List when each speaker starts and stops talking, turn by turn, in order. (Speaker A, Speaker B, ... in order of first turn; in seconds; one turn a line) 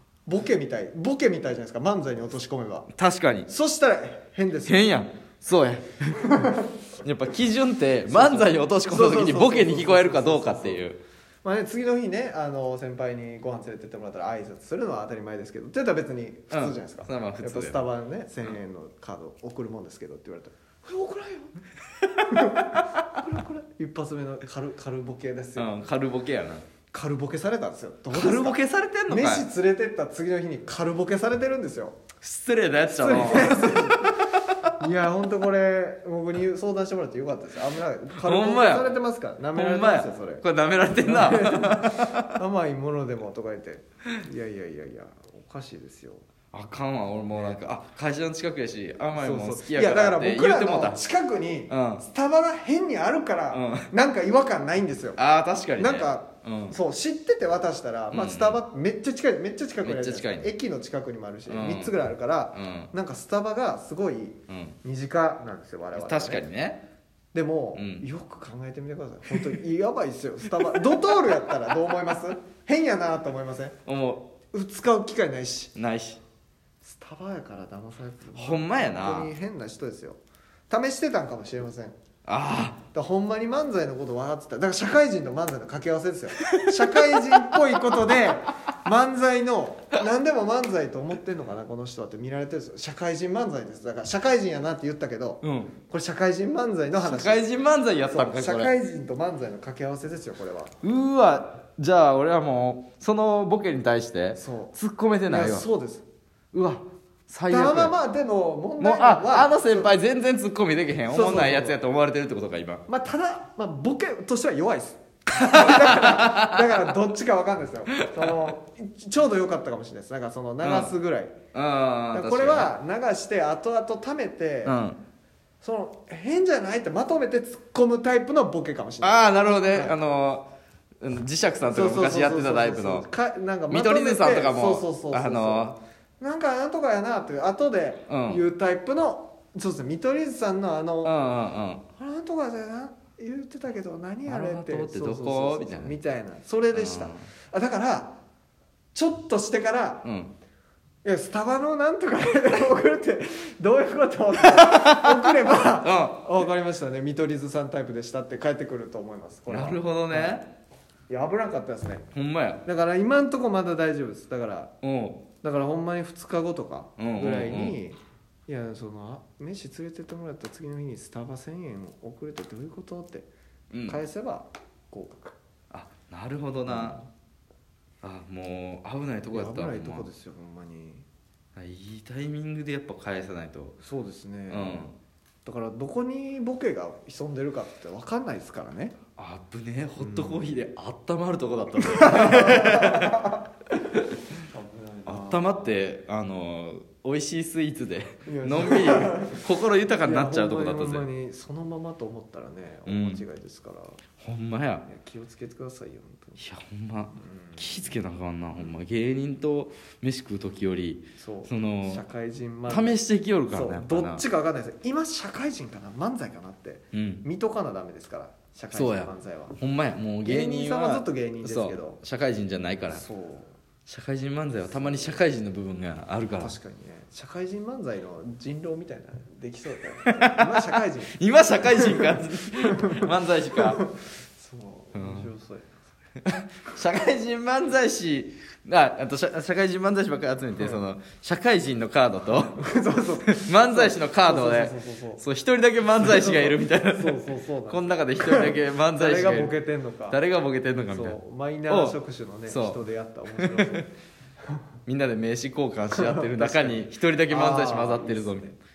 Speaker A: 0.2-2.9
Speaker B: 2.9-3.5
Speaker A: 3.5-5.0
Speaker B: 4.7-6.3
Speaker A: 6.1-6.7
Speaker B: 7.0-11.0
Speaker A: 8.1-10.8
Speaker A: 11.4-21.5
Speaker B: 16.5-17.9
Speaker B: 22.0-22.8
Speaker A: 22.3-25.7
Speaker B: 25.6-26.6
Speaker A: 26.9-32.0
Speaker B: 28.1-29.5
Speaker B: 32.2-34.7
Speaker A: 32.9-34.3
Speaker A: 34.8-40.4
Speaker B: 38.2-39.0
Speaker B: 39.5-42.3
Speaker A: 41.0-46.2
Speaker B: 46.5-51.0
Speaker A: 49.1-55.2
Speaker B: 51.7-52.0
Speaker B: 53.5-53.9
Speaker B: 55.2-56.8
Speaker A: 55.8-66.4
Speaker B: 58.1-58.6
Speaker B: 59.8-60.5
Speaker B: 61.5-62.0
Speaker B: 62.5-62.9
Speaker B: 64.5-64.8
Speaker B: 65.9-66.8
Speaker A: 67.3-73.8
Speaker B: 67.7-68.0
Speaker B: 73.8-74.3
Speaker A: 74.5-75.7
Speaker B: 75.7-76.2
Speaker A: 76.8-80.2
Speaker B: 78.3-79.3
Speaker A: 80.7-81.9
Speaker B: 82.2-82.8
Speaker A: 82.9-97.5
Speaker B: 86.4-88.1
Speaker B: 95.4-95.7
Speaker B: 97.0-98.7
Speaker A: 98.0-100.8
Speaker B: 100.8-105.7
Speaker A: 104.3-104.7
Speaker A: 105.3-106.0
Speaker B: 106.5-107.9
Speaker A: 107.5-109.9
Speaker B: 108.8-112.8
Speaker A: 111.1-111.8
Speaker A: 112.9-121.3
Speaker B: 115.3-116.9
Speaker B: 118.0-118.3
Speaker B: 120.6-120.9
Speaker B: 121.5-122.7
Speaker A: 122.1-124.8
Speaker B: 124.6-125.0
Speaker A: 125.6-129.9
Speaker B: 129.0-130.5
Speaker B: 131.0-133.1
Speaker A: 131.7-141.1
Speaker B: 133.7-135.8
Speaker B: 138.1-138.4
Speaker B: 141.0-141.8
Speaker A: 142.0-148.2
Speaker B: 144.2-146.0
Speaker B: 146.7-147.3
Speaker A: 148.9-150.0
Speaker B: 150.0-150.3
Speaker A: 151.0-160.4
Speaker B: 154.5-156.2
Speaker B: 159.5-160.5
Speaker A: 161.1-162.0
Speaker B: 162.1-162.6
Speaker A: 162.6-164.7
Speaker B: 164.8-165.2
Speaker A: 165.4-173.3
Speaker B: 167.0-167.8
Speaker B: 173.7-174.0
Speaker A: 173.8-175.4
Speaker B: 175.7-177.0
Speaker A: 176.7-177.0
Speaker B: 178.0-180.1
Speaker A: 179.3-181.0
Speaker B: 181.6-183.8
Speaker A: 183.8-184.9
Speaker B: 184.5-184.9
Speaker A: 185.4-188.9
Speaker B: 189.2-193.3
Speaker A: 190.0-190.4
Speaker A: 191.9-193.4
Speaker A: 194.5-195.6
Speaker B: 195.1-201.1
Speaker A: 198.2-199.4
Speaker A: 200.0-204.0
Speaker B: 202.8-203.2
Speaker B: 204.2-204.8
Speaker A: 204.8-206.4
Speaker B: 206.4-212.1
Speaker A: 207.1-207.9
Speaker A: 211.2-219.6
Speaker B: 212.7-214.2
Speaker B: 216.9-217.2
Speaker B: 218.7-223.1
Speaker A: 220.2-222.0
Speaker A: 222.9-223.6
Speaker B: 223.9-226.5
Speaker A: 224.6-225.2
Speaker A: 226.4-235.8
Speaker B: 230.1-233.8
Speaker B: 234.9-235.3
Speaker B: 236.2-242.7
Speaker A: 240.6-240.8
Speaker A: 242.6-245.2
Speaker B: 243.3-249.6
Speaker A: 245.9-250.2
Speaker B: 250.1-251.9
Speaker A: 250.9-253.9
Speaker B: 252.5-252.8
Speaker B: 253.4-253.8
Speaker B: 254.8-258.6
Speaker A: 255.9-258.5